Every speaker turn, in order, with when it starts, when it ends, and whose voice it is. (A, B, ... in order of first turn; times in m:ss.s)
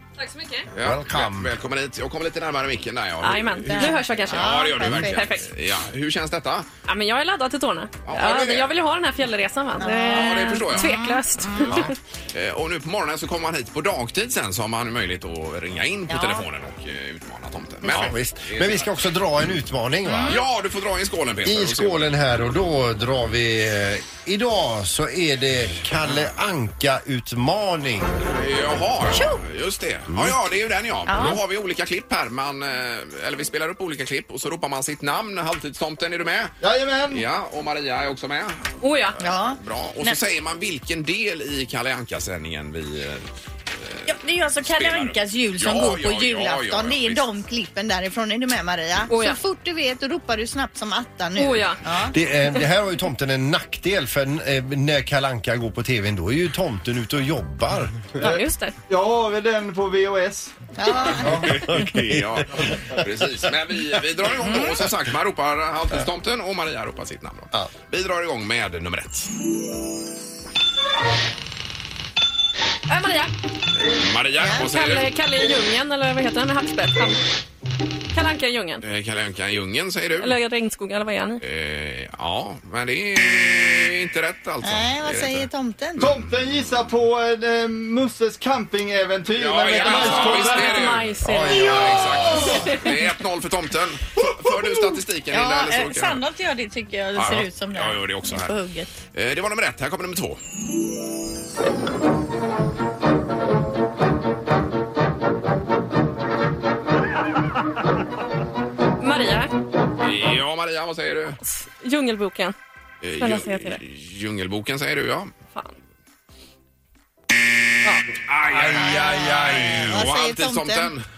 0:00.2-0:00.7 A
0:00.7-0:06.7 B
0:00.8-0:01.5 C
0:03.2-0:05.5 A
0:03.7-0:05.2 D
0:06.9-0:12.0 A
0:08.0-0:08.7 B
0:09.8-0:11.8 D
0:10.1-0:10.9 B
0:12.3-0:18.9 B
0:16.1-0:16.4 D
0:17.8-0:20.4 C
0:20.1-0:20.4 D
0:20.3-0:22.2 B
0:21.4-0:28.2 C
0:28.3-0:36.6 B
0:29.1-0:29.4 D
0:30.1-0:30.4 C
0:31.1-0:31.4 D
0:36.6-0:37.2 E
0:37.1-0:38.7 B
0:38.8-0:39.2 A
0:39.2-0:40.2 D
0:39.3-0:47.3 B
0:44.1-0:52.2 D
0:49.1-0:49.4 A
0:51.4-0:51.8 A
0:52.1-0:58.2 C
0:58.2-0:58.8 A
0:58.2-1:00.5 E
1:00.8-1:01.4 D
1:01.2-1:01.6 E
1:01.3-1:09.3 B
1:01.4-1:03.1 C
1:04.4-1:04.8 D
1:12.9-1:13.3 A
1:13.8-1:15.1 B
1:14.4-1:14.7 D
1:14.6-1:17.2 A
1:18.1-1:18.8 A
1:18.8-1:20.4 B
1:20.2-1:21.4 A
1:21.4-1:25.5 B
1:24.6-1:26.1 D
1:26.0-1:31.0 E
1:29.3-1:36.2 B
1:29.8-1:32.9 A
1:31.2-1:32.5 C
1:35.3-1:38.9 D
1:37.2-1:38.6 B
1:39.1-1:40.4 B
1:49.0-1:49.5 A
1:50.0-1:51.4 B
1:51.5-1:52.6 A
1:53.0-1:55.3 B
1:53.2-1:53.8 A
1:58.3-2:01.0 B
1:58.7-2:00.9 D